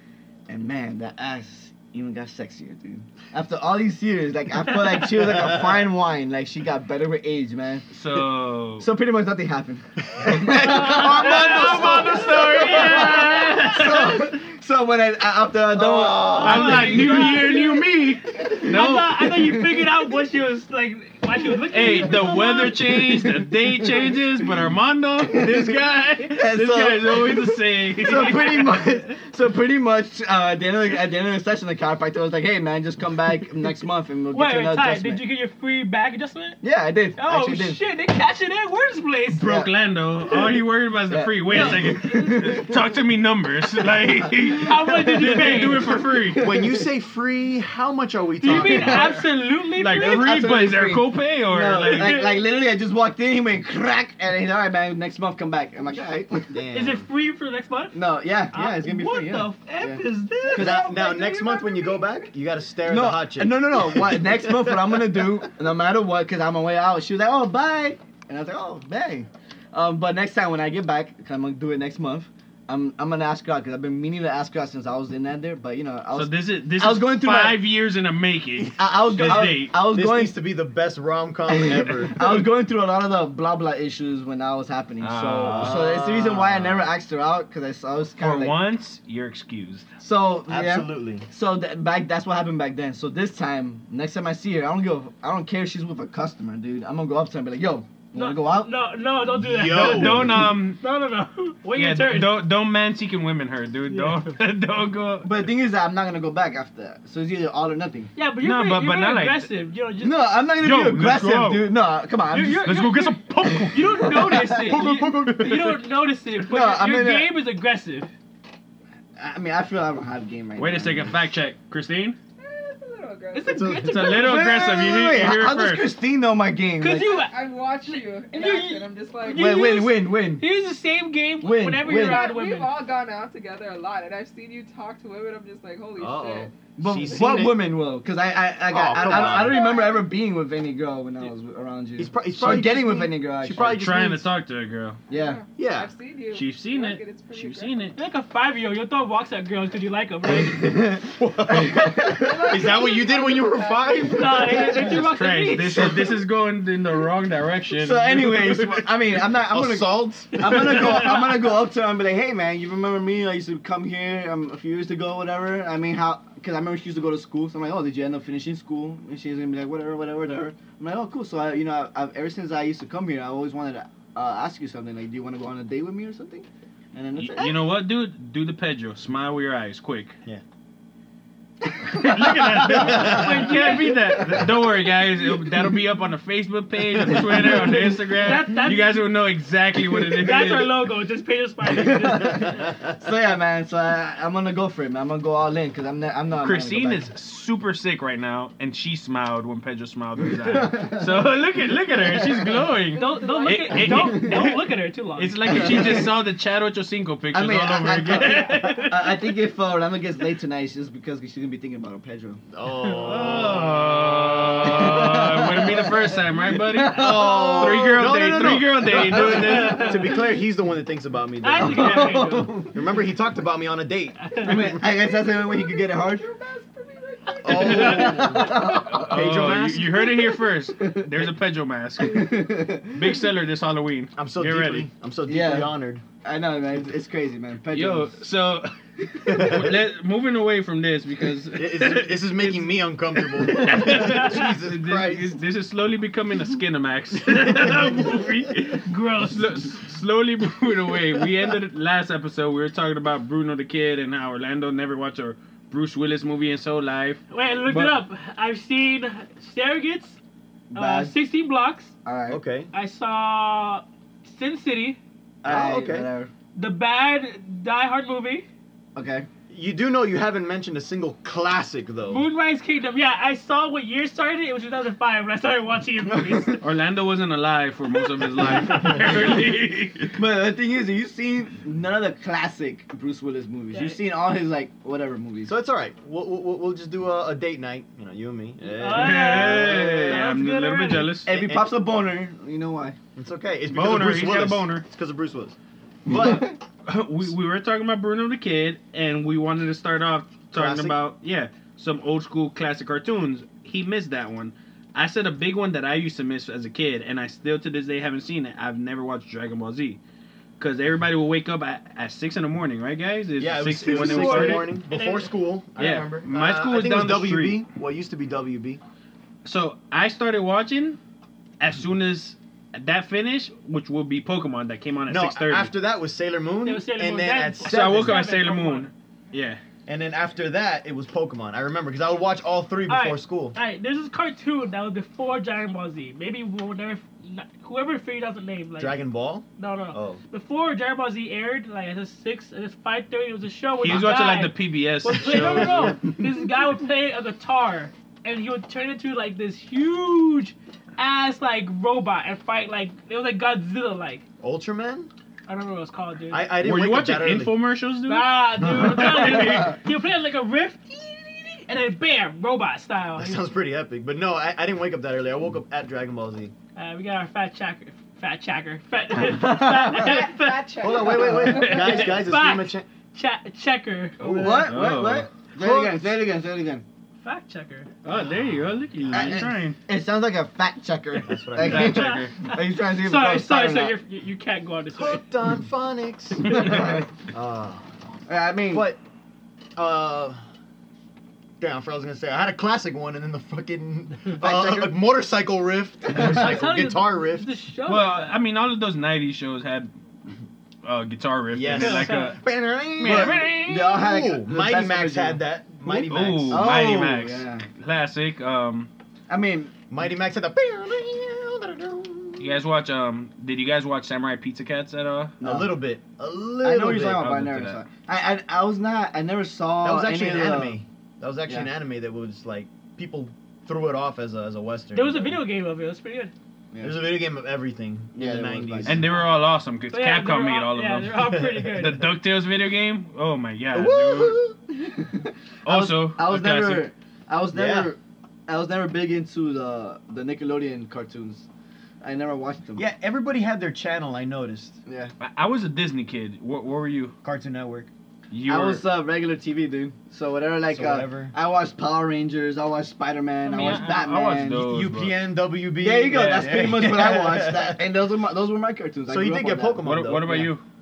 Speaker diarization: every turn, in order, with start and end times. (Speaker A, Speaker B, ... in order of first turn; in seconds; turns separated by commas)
Speaker A: 0.5-7.9, Speaker B: 5.2-5.8, Speaker C: 7.9-8.9, Speaker A: 8.8-17.6, Speaker B: 10.2-11.0, Speaker D: 10.5-14.3, Speaker C: 10.6-14.2, Speaker B: 15.8-16.9, Speaker C: 16.0-19.3, Speaker D: 16.4-22.8, Speaker A: 18.3-20.1, Speaker C: 21.7-28.8, Speaker A: 21.9-24.2, Speaker A: 25.3-35.3, Speaker D: 28.2-28.8, Speaker D: 34.3-36.6, Speaker A: 36.6-37.8, Speaker D: 37.2-39.6, Speaker C: 39.4-46.5, Speaker A: 39.4-39.7, Speaker A: 41.1-42.8, Speaker D: 41.5-42.5, Speaker A: 44.3-46.9, Speaker D: 44.5-46.0, Speaker B: 46.4-49.2, Speaker D: 48.4-50.4, Speaker A: 48.5-49.2, Speaker C: 49.7-52.2, Speaker A: 49.9-56.6, Speaker D: 51.8-52.4, Speaker B: 56.5-57.1, Speaker D: 56.7-58.0, Speaker A: 57.9-60.9, Speaker D: 58.5-61.1, Speaker B: 60.5-65.5, Speaker E: 60.5-62.3, Speaker A: 62.8-77.6, Speaker C: 76.1-79.7, Speaker A: 78.8-80.4, Speaker B: 79.1-82.4, Speaker A: 81.5-88.6, Speaker C: 85.0-86.5, Speaker B: 85.4-86.8, Speaker C: 88.2-89.9, Speaker A: 90.0-98.7, Speaker B: 90.5-91.3, Speaker D: 98.1-102.5, Speaker B: 99.4-100.5, Speaker C: 99.6-100.8, Speaker C: 101.7-105.4, Speaker D: 103.9-104.3, Speaker A: 105.2-108.1, Speaker D: 108.2-110.4, Speaker C: 108.4-109.5, Speaker A: 110.0-112.8, Speaker C: 110.6-111.7, Speaker D: 112.3-118.1, Speaker C: 112.4-114.3, Speaker A: 113.4-114.8, Speaker B: 114.6-115.8, Speaker A: 116.3-117.3, Speaker A: 119.2-121.2, Speaker C: 120.6-122.2, Speaker E: 122.4-123.6, Speaker D: 123.3-124.9, Speaker B: 123.5-124.0, Speaker C: 123.7-125.9, Speaker A: 124.0-127.1, Speaker D: 126.8-132.8, Speaker E: 126.9-129.8, Speaker A: 129.3-130.4, Speaker A: 131.4-132.3, Speaker E: 131.8-136.5, Speaker B: 136.0-137.7, Speaker A: 136.8-143.8, Speaker B: 138.7-139.7, Speaker E: 138.9-140.1, Speaker B: 142.0-144.3, Speaker C: 143.6-145.0, Speaker A: 145.1-145.4, Speaker E: 145.1-147.9, Speaker B: 145.6-145.9, Speaker C: 146.3-147.9, Speaker D: 147.9-150.9, Speaker B: 150.3-154.9, Speaker A: 150.5-151.0, Speaker A: 151.5-152.3, Speaker E: 152.0-154.9, Speaker D: 154.0-155.9, Speaker A: 154.5-155.0, Speaker C: 154.9-158.6, Speaker A: 155.7-156.1, Speaker A: 157.7-177.7, Speaker B: 159.3-161.2, Speaker C: 160.5-161.0, Speaker C: 177.2-180.2, Speaker A: 181.9-184.6, Speaker C: 181.9-190.8, Speaker B: 182.7-183.5, Speaker D: 182.7-184.2, Speaker A: 187.1-187.7, Speaker D: 187.3-189.1, Speaker D: 189.9-192.7, Speaker A: 191.8-197.1, Speaker B: 192.2-193.0, Speaker C: 196.4-208.8, Speaker A: 200.4-201.3, Speaker A: 202.1-202.6, Speaker E: 202.9-204.1, Speaker D: 202.9-206.0, Speaker A: 203.9-204.5, Speaker A: 205.5-206.1, Speaker A: 207.3-212.4, Speaker D: 208.1-209.2, Speaker B: 212.5-215.0, Speaker C: 213.0-220.0, Speaker A: 214.6-218.1, Speaker B: 216.9-224.8, Speaker A: 219.1-219.9, Speaker D: 219.2-220.1, Speaker D: 221.4-222.7, Speaker A: 221.5-222.7, Speaker D: 224.2-224.5, Speaker A: 224.4-226.2, Speaker E: 224.7-228.6, Speaker B: 227.4-230.0, Speaker A: 227.5-229.1, Speaker C: 227.6-234.9, Speaker A: 230.8-231.1, Speaker A: 232.0-233.0, Speaker B: 234.1-236.0, Speaker A: 235.3-238.1, Speaker C: 237.7-242.7, Speaker B: 239.2-239.7, Speaker B: 241.5-245.4, Speaker C: 243.3-258.0, Speaker D: 243.8-244.6, Speaker D: 247.5-248.1, Speaker B: 247.6-247.9, Speaker D: 248.8-249.6, Speaker D: 257.3-260.2, Speaker A: 260.7-261.2, Speaker D: 260.7-261.9, Speaker A: 262.0-262.4, Speaker B: 262.3-262.7, Speaker D: 262.7-265.0, Speaker B: 265.4-266.1, Speaker A: 265.4-266.3, Speaker D: 266.5-268.4, Speaker A: 268.9-269.3, Speaker B: 269.5-272.2, Speaker D: 272.1-276.6, Speaker A: 276.1-276.6, Speaker C: 276.6-280.2, Speaker D: 278.4-279.0, Speaker B: 278.7-279.2, Speaker A: 280.1-285.5, Speaker D: 283.7-284.0, Speaker B: 285.5-290.1, Speaker D: 288.7-291.2, Speaker C: 288.8-291.3, Speaker A: 289.2-290.3, Speaker A: 291.2-293.0, Speaker B: 291.3-291.8, Speaker B: 293.1-296.5, Speaker C: 293.7-294.8, Speaker A: 296.1-296.6, Speaker C: 296.2-310.0, Speaker B: 300.5-300.9, Speaker C: 310.6-314.8, Speaker B: 313.4-318.8, Speaker D: 314.0-315.3, Speaker C: 315.8-317.6, Speaker C: 319.4-321.0, Speaker C: 321.6-325.7, Speaker B: 325.1-328.2, Speaker D: 326.6-328.9, Speaker C: 327.6-329.6, Speaker B: 329.9-333.6, Speaker D: 332.9-339.0, Speaker B: 338.8-340.2, Speaker D: 339.6-354.2, Speaker C: 343.8-346.1, Speaker B: 345.1-346.1, Speaker B: 354.4-355.1, Speaker D: 355.5-356.5, Speaker B: 356.3-357.5, Speaker C: 356.6-359.7, Speaker D: 358.1-363.4, Speaker B: 358.6-359.3, Speaker B: 363.1-366.5, Speaker D: 366.8-374.6, Speaker A: 369.1-370.2, Speaker E: 369.8-372.2, Speaker B: 370.8-372.9, Speaker A: 374.2-376.8, Speaker B: 374.2-374.7, Speaker C: 374.2-375.3, Speaker B: 375.5-376.2, Speaker D: 377.2-377.9, Speaker C: 378.0-379.8, Speaker B: 379.0-379.4, Speaker A: 379.1-383.9, Speaker B: 381.2-382.2, Speaker C: 381.6-382.3, Speaker D: 381.8-385.2, Speaker B: 384.9-387.8, Speaker A: 386.4-387.1, Speaker A: 388.3-388.9, Speaker B: 388.7-389.0, Speaker B: 389.8-390.4, Speaker B: 391.6-397.5, Speaker A: 394.4-394.9, Speaker A: 396.1-396.6, Speaker D: 396.1-398.4, Speaker C: 397.9-399.9, Speaker C: 400.8-402.4, Speaker B: 401.5-406.7, Speaker D: 401.8-402.4, Speaker C: 403.0-403.8, Speaker A: 403.0-405.4, Speaker C: 405.9-408.9, Speaker A: 406.5-407.7, Speaker A: 409.3-409.8, Speaker B: 409.9-412.6, Speaker C: 412.4-415.4, Speaker A: 415.4-415.7, Speaker B: 415.4-417.3, Speaker A: 416.6-420.8, Speaker C: 417.0-417.8, Speaker B: 419.8-425.4, Speaker D: 424.9-426.3, Speaker A: 426.7-427.0, Speaker B: 426.8-429.1, Speaker A: 428.1-429.1, Speaker C: 428.8-434.4, Speaker D: 429.9-432.1, Speaker B: 431.2-431.9, Speaker B: 433.7-434.3, Speaker A: 433.9-441.5, Speaker C: 435.6-436.9, Speaker B: 437.5-437.9, Speaker A: 442.0-442.9, Speaker B: 442.8-444.8, Speaker A: 444.9-445.1, Speaker C: 445.2-447.1, Speaker B: 447.2-447.9, Speaker C: 448.3-448.8, Speaker A: 448.5-454.7, Speaker B: 450.7-451.3, Speaker D: 453.4-454.1, Speaker C: 453.5-455.1, Speaker B: 454.6-457.9, Speaker A: 455.8-460.4, Speaker C: 456.1-456.9, Speaker B: 459.1-460.5, Speaker C: 459.8-460.6